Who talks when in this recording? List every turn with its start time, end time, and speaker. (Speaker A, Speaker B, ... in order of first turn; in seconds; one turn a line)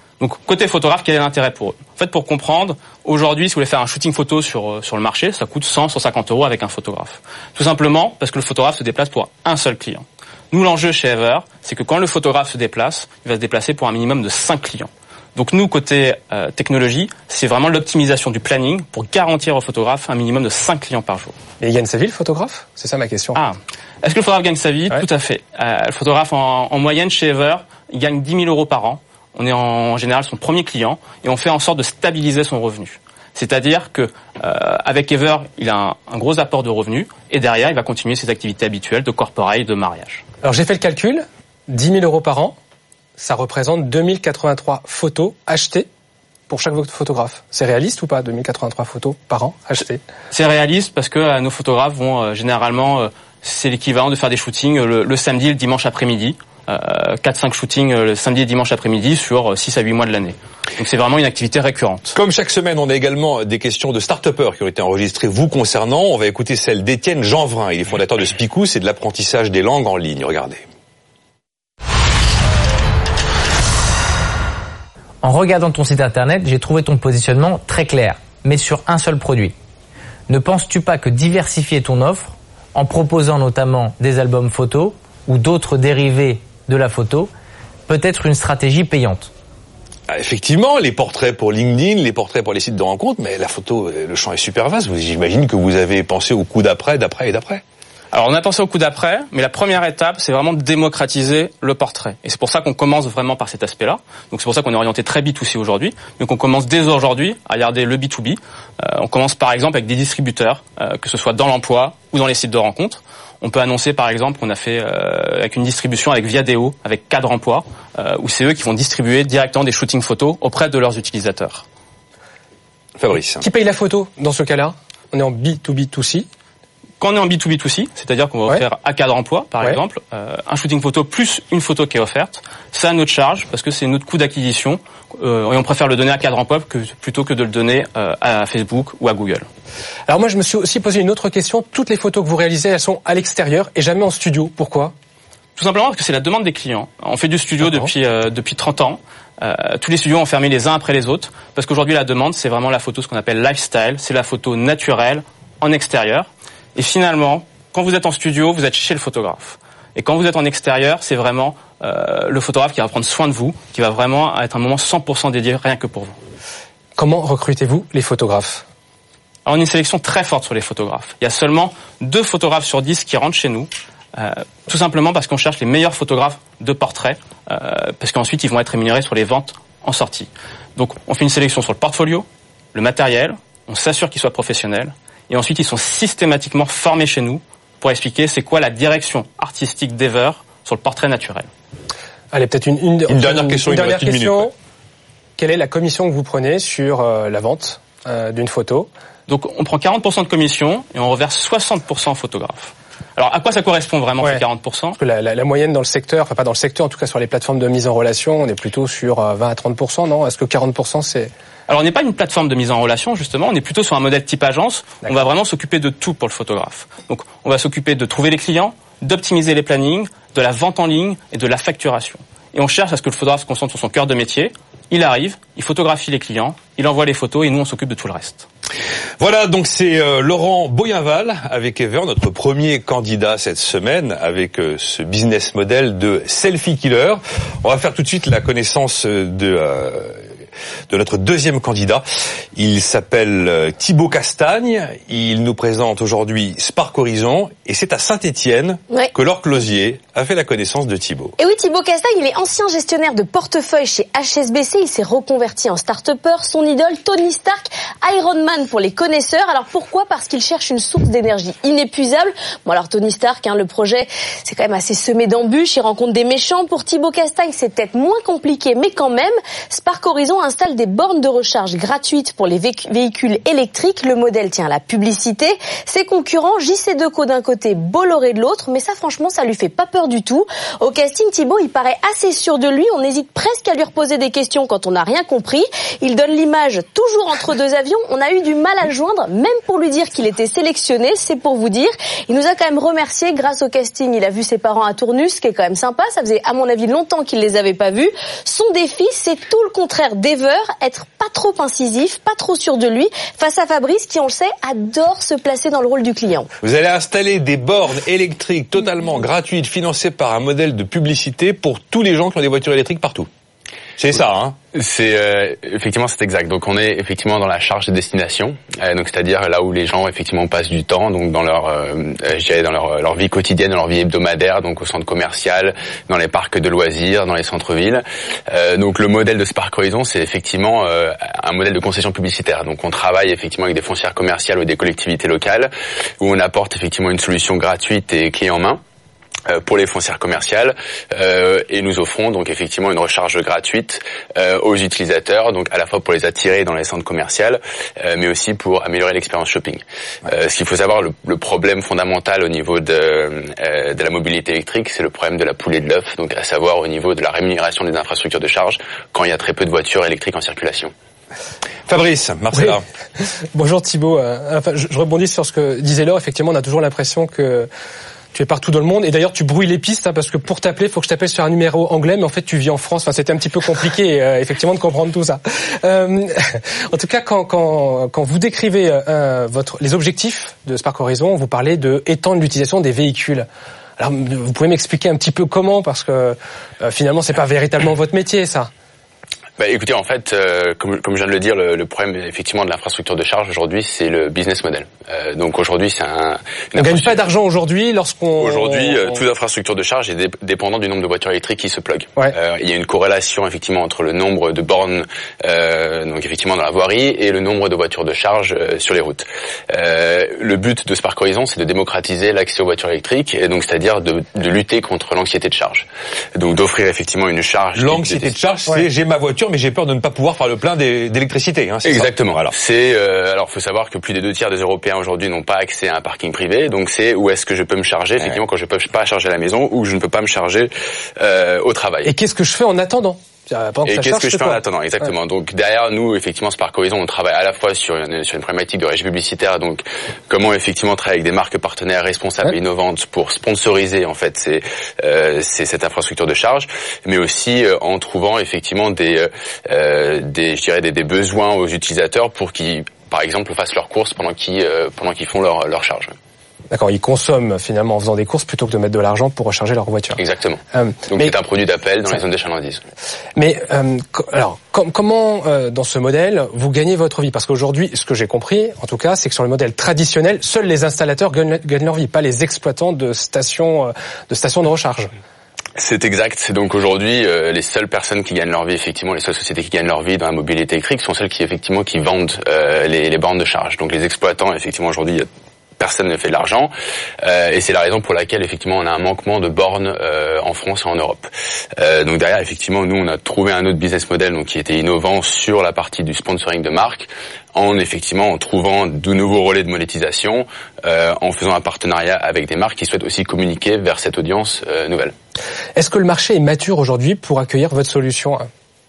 Speaker A: 0.2-21.3
Speaker B: 21.6-23.4
Speaker A: 23.3-40.2
Speaker B: 40.4-42.5
Speaker B: 43.2-45.9
Speaker B: 46.5-50.0
Speaker A: 50.3-62.1
Speaker C: 62.1-70.6
Speaker D: 75.2-79.5
Speaker D: 80.3-87.3
Speaker D: 87.9-89.3
Speaker C: 90.1-97.6
Speaker A: 98.1-121.6
Speaker C: 123.0-123.4
Speaker B: 123.4-126.3
Speaker A: 127.0-139.5
Speaker B: 140.1-144.9
Speaker A: 145.6-166.2
Speaker B: 167.0-168.6
Speaker A: 169.4-191.5
Speaker B: 192.3-194.5
Speaker C: 193.1-194.5
Speaker B: 195.4-198.9
Speaker A: 199.3-205.0
Speaker B: 205.0-211.3
Speaker A: 211.7-228.5
Speaker C: 229.2-240.2
Speaker C: 240.9-242.0
Speaker C: 242.5-251.3
Speaker E: 251.4-306.5
Speaker C: 306.6-313.3
Speaker C: 314.0-314.6
Speaker F: 314.7-338.8
Speaker F: 339.5-360.9
Speaker C: 361.9-362.8
Speaker B: 363.5-367.7
Speaker B: 368.3-383.5
Speaker B: 384.0-388.7
Speaker F: 389.6-397.2
Speaker B: 396.8-399.2
Speaker F: 398.4-418.3
Speaker C: 417.8-422.5
Speaker F: 421.8-432.1
Speaker B: 432.0-434.6
Speaker F: 433.9-456.1
Speaker B: 456.7-460.2
Speaker F: 460.2-462.8
Speaker B: 460.7-461.3
Speaker B: 463.4-475.1
Speaker F: 475.8-485.3
Speaker F: 485.8-505.1
Speaker B: 505.8-508.5